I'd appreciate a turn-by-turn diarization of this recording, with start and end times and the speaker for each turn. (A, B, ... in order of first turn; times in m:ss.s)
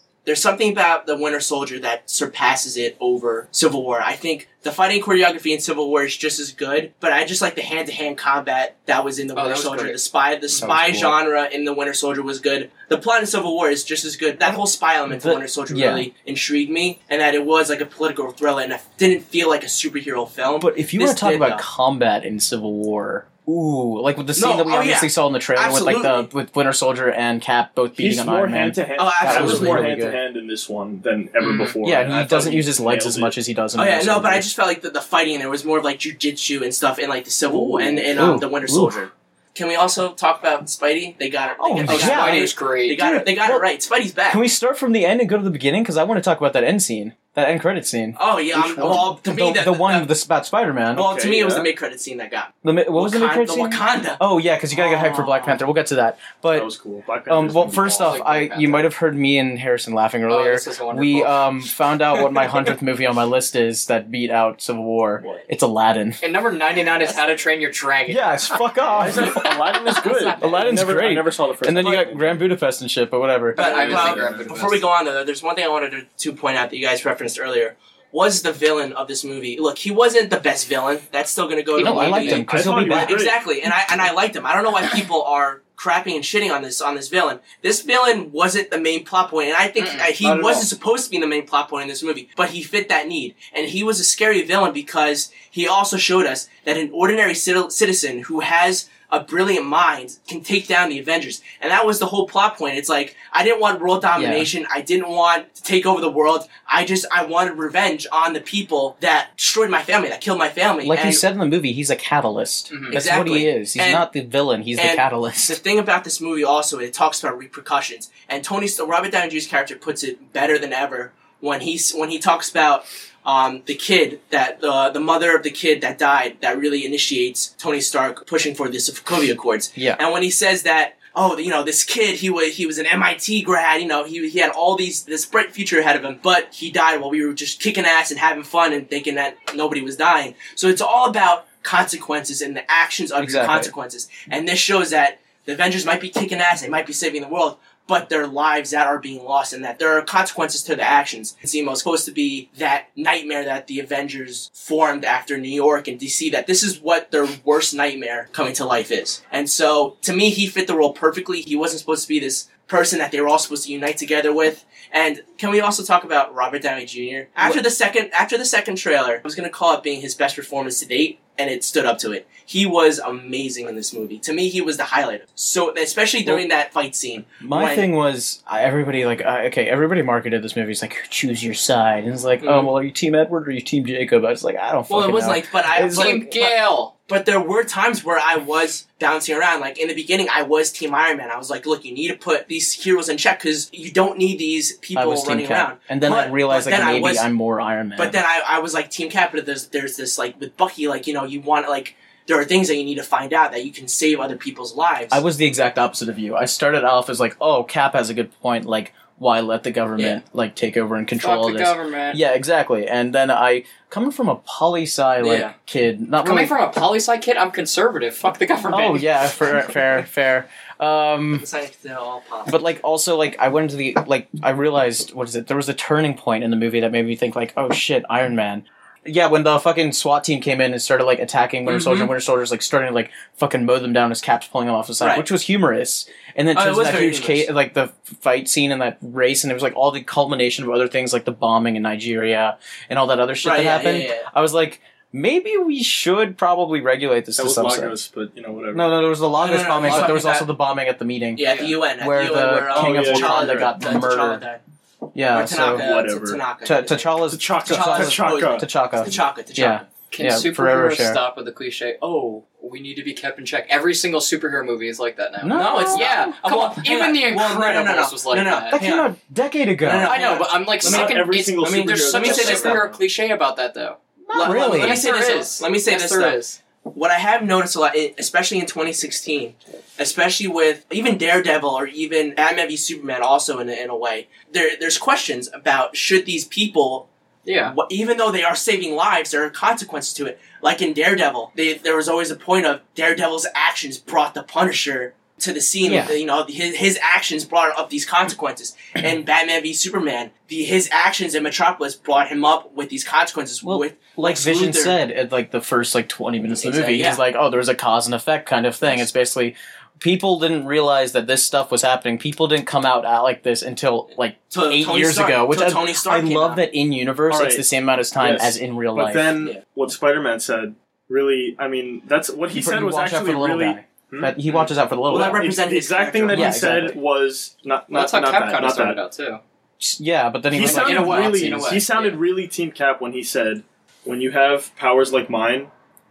0:00.2-0:21.6 A
0:09.3-0:10.0 B
0:10.6-0:11.2 C
0:14.4-0:16.1 C
0:20.6-0:30.2 C
0:24.4-0:26.3 A
0:28.0-0:33.3 D
0:29.0-0:29.9 A
0:31.4-0:31.7 B
0:31.8-0:34.4 C
0:33.7-0:44.4 A
0:37.5-0:38.4 D
0:38.1-0:38.9 C
0:41.6-0:43.6 C
0:41.9-0:43.0 B
0:44.3-0:51.1 C
0:48.2-0:50.1 A
0:50.9-0:51.7 D
0:50.9-0:54.2 A
0:52.6-0:56.7 C
0:54.7-0:55.6 A
0:56.5-0:58.2 D
0:57.3-1:06.2 C
0:58.0-0:58.9 B
1:00.3-1:01.4 B
1:06.2-1:10.8 B
1:08.1-1:09.5 C
1:08.9-1:12.4 D
1:10.4-1:13.7 C
1:13.5-1:14.8 B
1:13.5-1:51.2 A
1:13.6-1:14.5 D
1:21.8-1:23.2 C
1:21.8-1:22.4 B
1:22.3-1:23.4 D
1:29.8-1:30.2 B
1:30.2-1:30.6 D
1:44.2-1:44.5 C
1:50.8-1:55.6 C
1:52.9-1:54.1 A
1:54.8-2:57.9 A
2:23.2-2:23.7 C
2:57.4-3:06.3 C
3:02.4-3:02.7 A
3:04.9-3:06.5 A
3:05.9-3:06.9 B
3:07.1-3:17.3 A
3:14.9-3:18.2 C
3:18.0-3:25.2 A
3:25.1-3:36.5 C
3:31.2-3:32.2 B
3:35.2-3:35.5 A
3:36.2-3:39.1 B
3:38.7-3:41.4 C
3:41.3-3:42.6 A
3:42.5-4:08.0 C
3:51.6-3:52.1 A
3:55.0-3:55.2 A
3:56.5-3:57.5 A
4:03.4-4:04.3 A
4:07.4-4:08.9 D
4:08.7-4:14.4 C
4:09.4-4:10.5 A
4:11.4-4:14.6 A
4:11.4-4:11.7 B
4:12.7-4:13.7 D
4:15.1-4:15.8 C
4:15.3-4:17.1 A
4:15.7-4:16.4 D
4:16.6-4:21.2 C
4:17.3-4:18.7 D
4:17.6-4:19.8 A
4:20.1-4:28.8 B
4:25.4-4:26.4 C
4:25.5-4:29.1 A
4:28.7-4:30.1 C
4:29.8-4:32.9 A
4:30.0-4:36.6 B
4:30.8-4:33.0 D
4:34.3-4:35.0 C
4:34.3-4:47.1 A
4:47.4-4:47.7 B
4:47.6-5:05.0 A
4:55.8-4:56.2 C
5:03.6-5:19.3 C
5:06.6-5:07.2 A
5:14.5-5:16.6 A
5:17.3-5:17.6 D
5:18.2-5:24.4 D
5:22.5-5:25.5 C
5:24.5-5:26.8 A
5:25.1-5:29.0 D
5:26.3-5:27.0 C
5:27.9-5:29.4 B
5:29.8-5:31.8 C
5:30.5-5:35.7 D
5:30.6-5:32.2 B